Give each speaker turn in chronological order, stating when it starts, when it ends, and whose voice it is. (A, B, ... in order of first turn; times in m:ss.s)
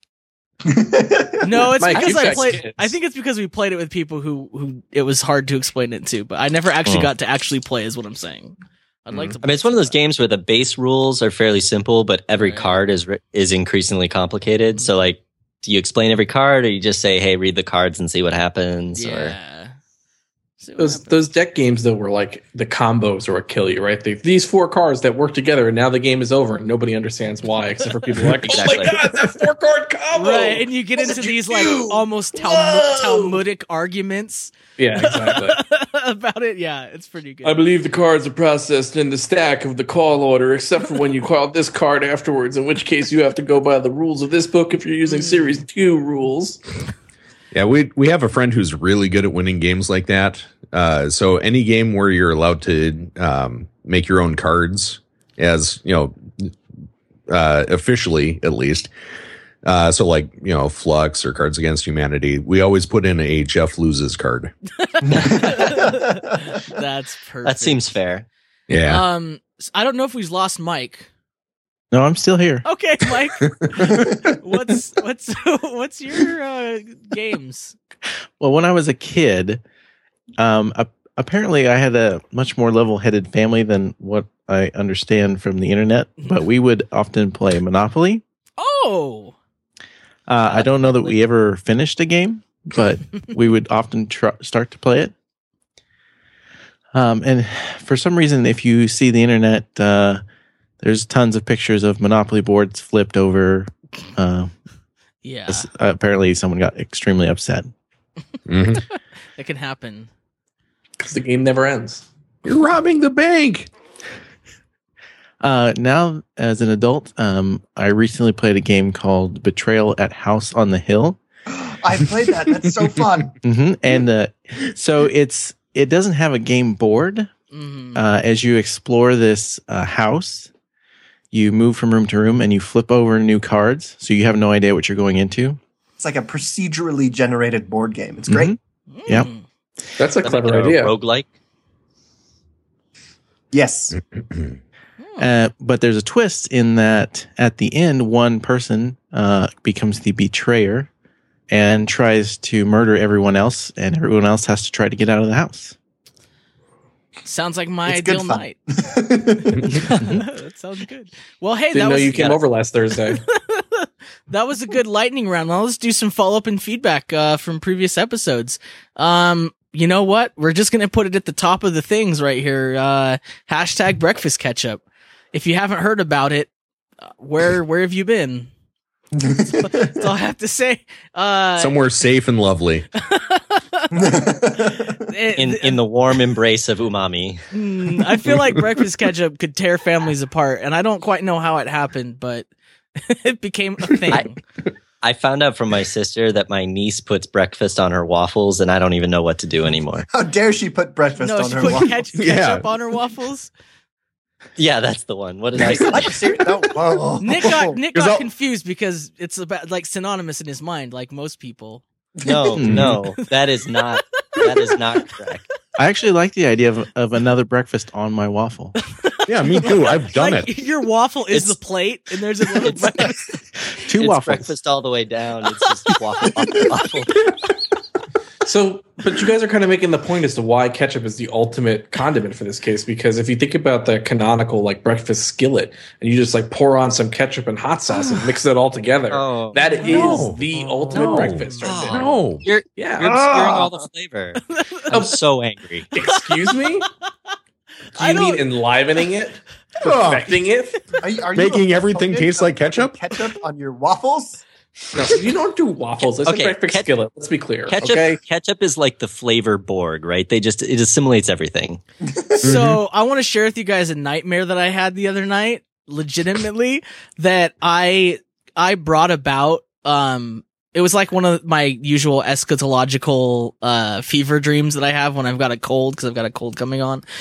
0:00.6-0:02.0 A
0:01.4-0:09.9 B
0:01.8-0:02.9 C
0:09.4-0:19.3 D
0:12.3-0:12.8 B
0:18.9-0:19.7 B
0:20.6-0:21.2 B
0:20.8-0:33.4 C
0:28.4-0:29.0 D
0:30.1-0:37.6 B
0:34.8-0:35.6 C
0:37.4-0:46.6 C
0:45.0-0:45.6 B
0:47.5-0:56.5 E
0:57.3-0:58.9 E
0:59.6-1:04.5 E
1:04.8-1:07.8 B
1:05.1-1:05.8 D
1:05.6-1:06.4 A
1:07.4-1:08.2 D
1:08.7-1:09.0 E
1:08.8-1:11.1 B
1:11.9-1:12.6 F
1:12.6-1:17.8 B
1:13.6-1:13.9 E
1:13.8-1:14.2 A
1:18.4-1:19.6 F
1:20.4-1:28.2 F
1:28.6-1:29.3 B
1:30.3-1:35.1 F
1:30.5-1:31.1 B
1:36.9-1:40.2 F
1:40.8-1:44.5 F
1:45.2-1:45.7 B
1:45.5-1:47.7 F
1:48.5-1:48.8 E
1:49.4-1:50.1 B
1:51.0-1:52.0 C
1:52.4-1:53.7 E
1:55.4-2:01.2 F
2:01.5-2:03.3 A
2:03.4-2:07.3 F
2:07.5-2:08.0 B
2:07.9-2:10.5 F
2:11.3-2:15.6 F
2:16.0-2:18.6 A
2:18.3-2:19.3 F
2:18.9-2:19.4 B
2:20.0-2:20.9 C
2:20.2-2:21.3 D
2:23.5-2:24.0 A
2:24.3-2:24.6 E
2:25.0-2:25.3 B
2:25.2-2:30.9 F
2:31.5-2:35.7 F
2:37.2-2:38.6 B
2:37.8-2:39.8 A
2:39.6-2:42.4 B
2:39.9-2:40.2 F
2:41.7-2:43.2 C
2:43.1-2:54.8 B
2:55.3-2:56.5 B
2:57.2-2:58.5 B
2:59.2-2:59.9 A
2:59.6-3:01.8 B
3:01.6-3:02.9 E
3:03.0-3:05.8 B
3:03.9-3:05.0 A
3:05.4-3:07.4 D
3:07.5-3:14.4 B
3:15.0-3:20.0 D
3:20.1-3:22.0 A
3:21.2-3:23.5 B
3:22.1-3:22.6 E
3:24.6-3:26.4 D
3:25.6-3:27.8 A
3:27.2-3:33.0 B
3:27.9-3:28.2 E
3:32.2-3:35.4 D
3:32.6-3:33.0 F
3:33.8-3:35.0 B
3:35.8-3:38.7 F
3:39.0-3:43.3 B
3:39.2-3:40.5 E
3:41.3-3:41.6 D
3:42.6-3:43.0 D
3:43.6-3:44.5 F
3:43.9-3:47.3 D
3:48.4-4:02.2 C
3:59.1-4:00.0 D
3:59.8-4:01.7 B
3:59.9-4:02.4 E
4:01.6-4:05.9 D
4:02.8-4:03.1 C
4:03.0-4:03.7 A
4:04.5-4:04.8 B
4:05.9-4:06.9 C
4:06.0-4:06.9 B
4:08.0-4:08.5 B
4:08.0-4:10.9 C
4:09.8-4:10.3 E
4:11.0-4:14.4 A
4:11.4-4:12.9 E
4:14.9-4:18.2 C
4:16.2-4:16.9 D
4:17.7-4:21.8 D
4:22.0-4:22.5 A
4:22.4-4:37.0 B
4:22.4-4:22.8 E